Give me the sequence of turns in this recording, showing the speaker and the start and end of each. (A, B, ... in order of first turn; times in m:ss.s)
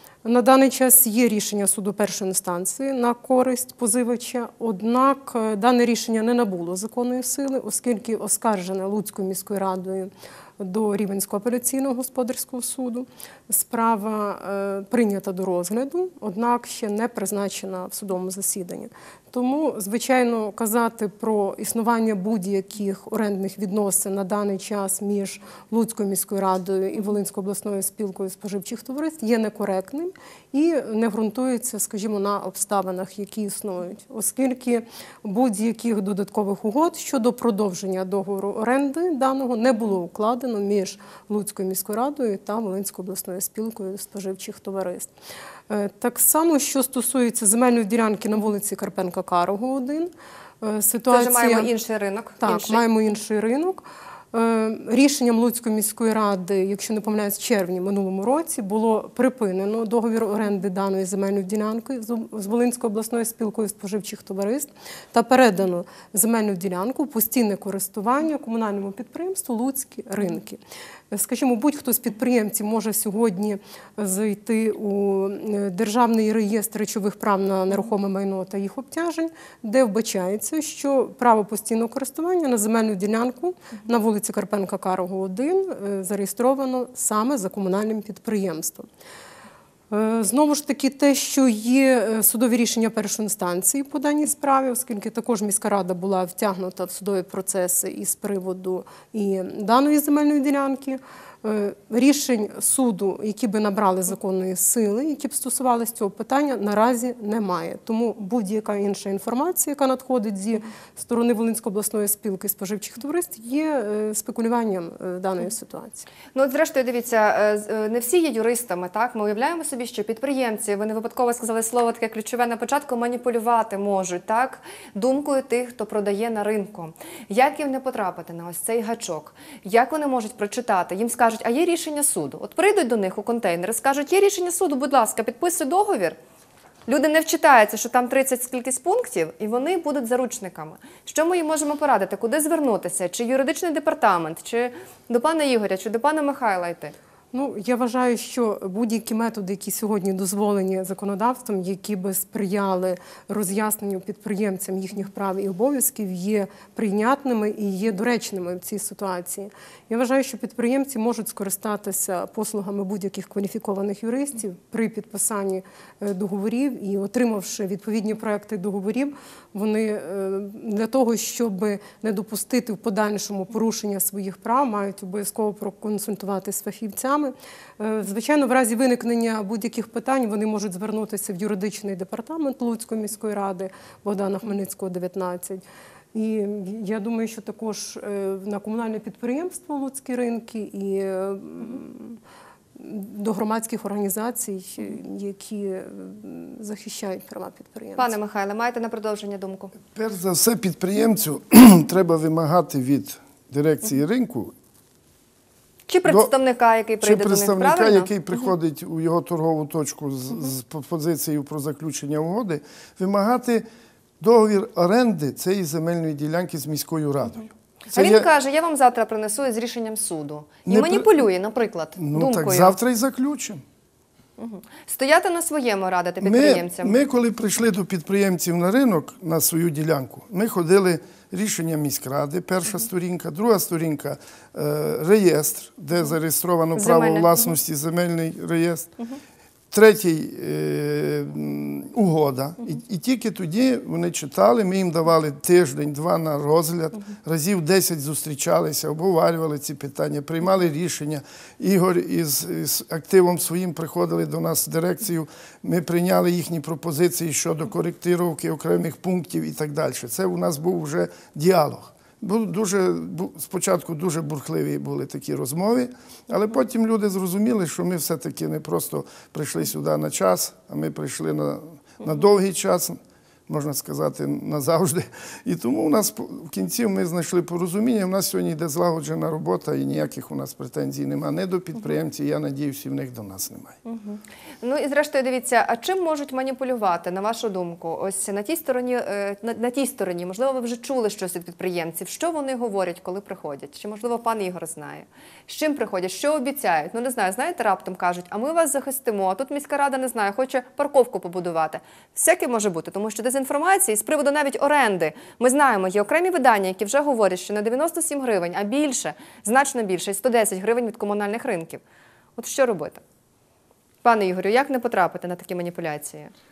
0:00.2-0:45.1 A
0:45.7-0:51.7 A
0:51.1-0:52.8 B
0:52.4-1:10.6 A
1:11.1-1:28.9 A
1:29.9-1:56.1 A
1:56.3-2:16.2 B
2:16.9-2:26.9 B
2:27.3-3:05.6 A
3:06.1-3:12.2 A
3:12.8-3:18.1 A
3:18.0-3:19.7 B
3:19.9-3:24.5 C
3:25.9-3:28.1 B
3:26.0-3:26.3 C
3:27.0-3:33.6 C
3:34.2-3:38.3 C
3:37.9-3:42.7 B
3:40.6-3:41.2 C
3:42.0-3:43.6 C
3:44.4-3:47.0 B
3:46.2-3:58.9 C
3:56.8-3:57.4 B
3:59.7-4:43.8 C
4:43.8-5:11.8 B
5:12.4-5:13.0 B
5:14.0-5:16.3 B